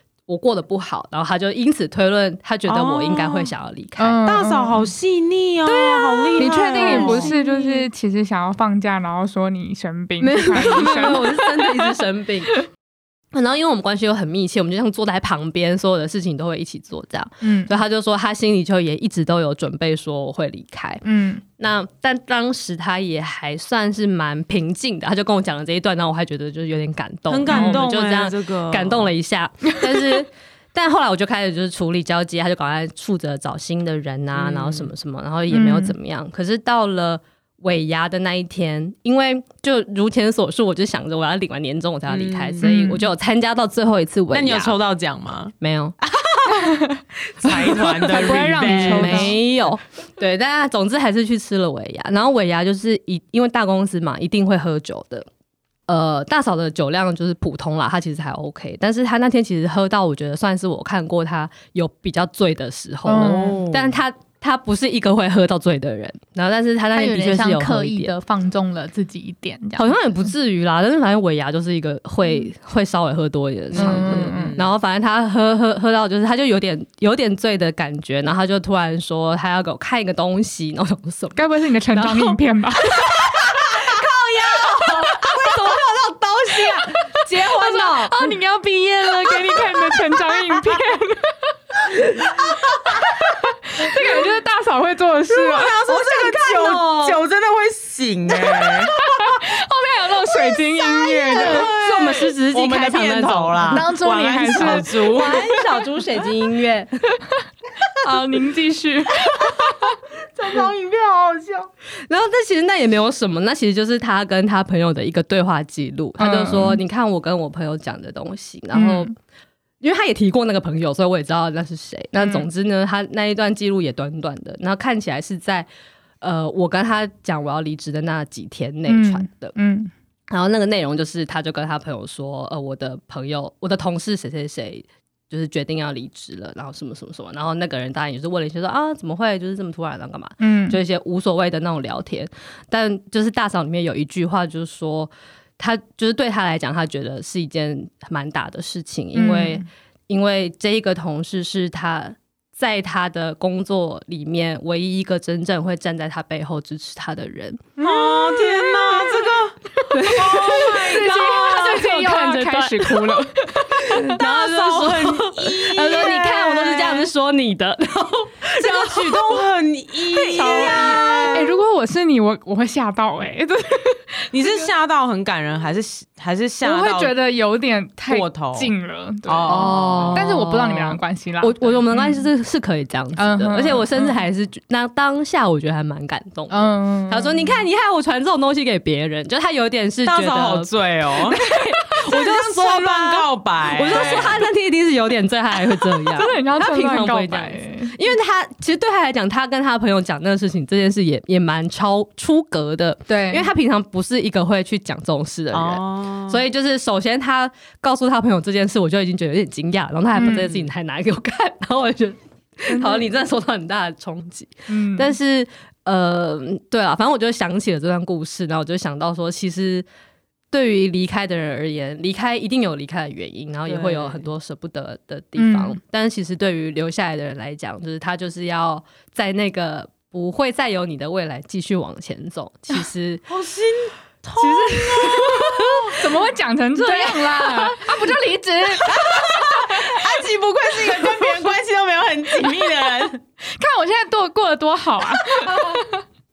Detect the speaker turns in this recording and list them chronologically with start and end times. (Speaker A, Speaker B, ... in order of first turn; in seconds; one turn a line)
Speaker A: 0.3-4.2
Speaker B: 2.7-3.5
Speaker C: 4.0-4.9
Speaker B: 4.2-7.3
Speaker A: 5.6-7.9
Speaker C: 6.4-11.8
Speaker A: 10.2-12.6
Speaker A: 13.3-44.7
Speaker C: 17.4-17.7
Speaker C: 21.0-21.4
Speaker B: 27.3-29.1
Speaker C: 27.5-27.8
Speaker B: 34.3-34.9
Speaker C: 35.5-35.9
Speaker B: 42.1-42.9
Speaker C: 42.6-43.0
Speaker B: 44.3-45.5
Speaker A: 45.6-46.0
Speaker B: 46.0-46.4
Speaker C: 46.5-49.4
Speaker B: 47.3-49.4
Speaker A: 48.1-55.3
Speaker A: 55.9-68.1
Speaker C: 63.0-63.6
Speaker B: 63.2-64.0
Speaker C: 66.9-70.0
Speaker A: 69.8-88.4
Speaker B: 73.7-74.7
Speaker C: 73.8-74.6
Speaker C: 81.3-83.1
Speaker C: 87.3-92.5
Speaker A: 89.0-90.2
Speaker A: 91.9-92.9
Speaker C: 93.2-95.8
Speaker B: 95.3-99.0
Speaker A: 95.8-97.2
Speaker C: 99.0-101.7
Speaker A: 100.5-103.9
Speaker B: 101.3-105.5
Speaker C: 103.7-105.5
Speaker A: 104.5-107.0
Speaker C: 108.0-110.0
Speaker A: 109.3-109.7
Speaker A: 110.3-119.1
Speaker C: 116.2-116.8
Speaker C: 118.7-119.1
Speaker A: 119.8-125.7
Speaker A: 126.2-129.5
Speaker C: 128.8-129.9
Speaker A: 130.3-157.7
Speaker C: 140.4-140.8
Speaker C: 149.1-149.7
Speaker C: 157.8-159.1
Speaker B: 157.8-161.6
Speaker C: 159.8-164.2
Speaker A: 159.9-163.2
Speaker A: 163.8-169.4
Speaker B: 164.2-167.1
Speaker B: 168.5-171.6
Speaker A: 170.1-171.3
Speaker C: 170.3-174.7
Speaker B: 174.3-177.1
Speaker C: 176.6-182.3
Speaker B: 178.1-178.7
Speaker B: 179.2-180.2
Speaker A: 179.5-219.8
Speaker C: 183.2-184.2
Speaker C: 186.5-187.6
Speaker B: 190.0-191.4
Speaker B: 192.0-194.4
Speaker C: 193.9-194.2
Speaker C: 196.1-197.9
Speaker C: 203.1-203.5
Speaker B: 205.5-206.4
Speaker C: 210.1-210.5
Speaker B: 210.2-210.6
Speaker C: 212.7-213.1
Speaker C: 214.7-215.2
Speaker A: 220.5-233.2
Speaker B: 223.7-224.2
Speaker C: 225.3-225.8
Speaker B: 233.3-235.9
Speaker A: 234.4-235.9
Speaker C: 234.9-235.3
Speaker C: 235.9-240.0
Speaker A: 236.8-237.8
Speaker B: 238.8-243.2
Speaker C: 240.9-241.3
Speaker C: 243.4-246.0